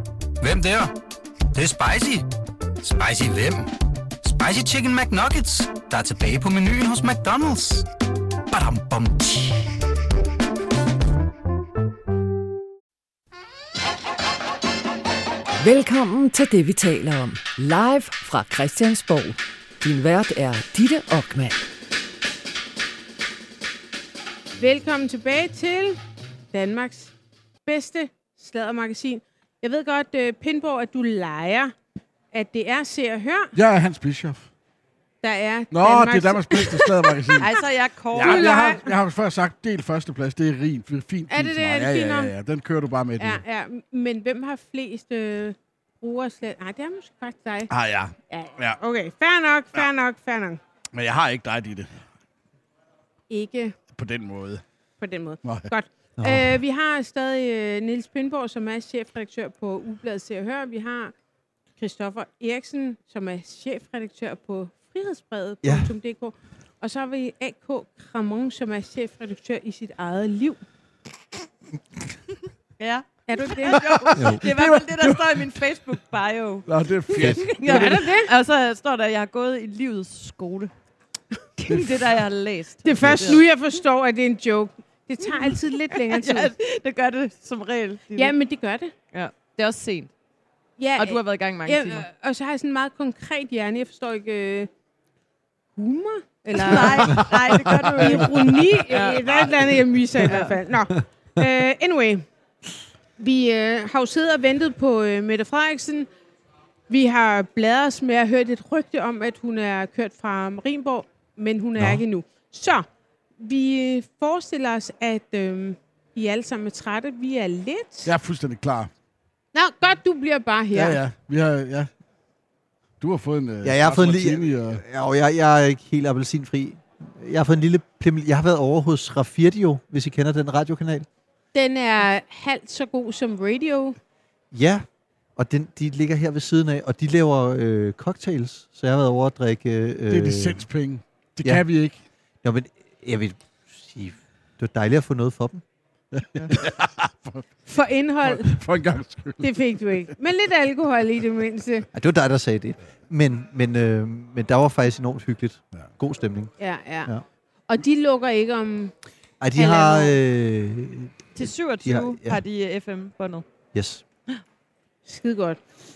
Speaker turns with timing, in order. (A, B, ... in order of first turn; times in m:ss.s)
0:00.4-0:00.9 A
0:01.5-0:02.2 A
0:02.8-0:07.9 A
0:08.5-0:09.7 A
0:15.6-0:21.7 B
0:24.6-0:26.0 C
0:26.5-0:27.1 C
0:27.6-0:31.7 C
0:32.3-0:33.5 C
0:33.5-0:34.5 D
0:35.2-0:37.5 C
0:35.7-0:37.5 D
0:37.4-0:38.7 E
0:38.1-0:43.4 D
0:38.1-0:38.9 C
0:41.3-0:42.3 C
0:43.2-0:47.7 C
0:47.7-0:48.8 D
0:48.3-0:50.6 C
0:50.9-0:52.0 D
0:53.3-0:53.8 C
0:53.9-0:54.6 D
0:55.0-1:01.1 C
0:55.4-0:55.7 D
0:56.2-0:56.6 F
1:01.8-1:10.6 C
1:05.6-1:05.9 F
1:12.8-1:20.7 E
1:13.3-1:13.8 C
1:13.8-1:15.6 D
1:16.6-1:18.0 D
1:17.2-1:17.4 F
1:17.6-1:18.3 C
1:21.7-1:23.4 E
1:21.7-1:22.0 D
1:22.8-1:26.5 C
1:23.0-1:23.4 F
1:25.2-1:28.3 E
1:28.1-1:28.9 C
1:29.1-1:30.1 E
1:30.8-1:34.7 C
1:31.0-1:32.0 E
1:35.8-1:37.3 C
1:36.6-1:39.3 E
1:36.7-1:38.3 D
1:37.9-1:42.2 C
1:40.2-1:40.5 E
1:43.2-1:46.1 C
1:46.9-1:52.8 C
1:53.4-1:58.1 C
1:58.0-1:58.9 D
1:59.5-2:01.0 C
2:00.7-2:01.9 D
2:03.0-2:04.8 D
2:03.6-2:11.1 F
2:11.5-2:14.0 C
2:14.5-2:14.8 F
2:15.4-2:20.6 F
2:20.1-2:22.0 D
2:22.4-2:25.6 F
2:26.1-2:27.5 D
2:27.7-2:28.6 C
2:28.2-2:29.6 D
2:29.4-2:31.9 C
2:31.9-2:36.5 F
2:36.6-2:37.1 C
2:37.7-2:38.9 C
2:39.4-2:42.4 F
2:39.6-2:40.2 C
2:41.4-2:43.4 E
2:43.7-2:44.0 F
2:45.0-2:45.6 C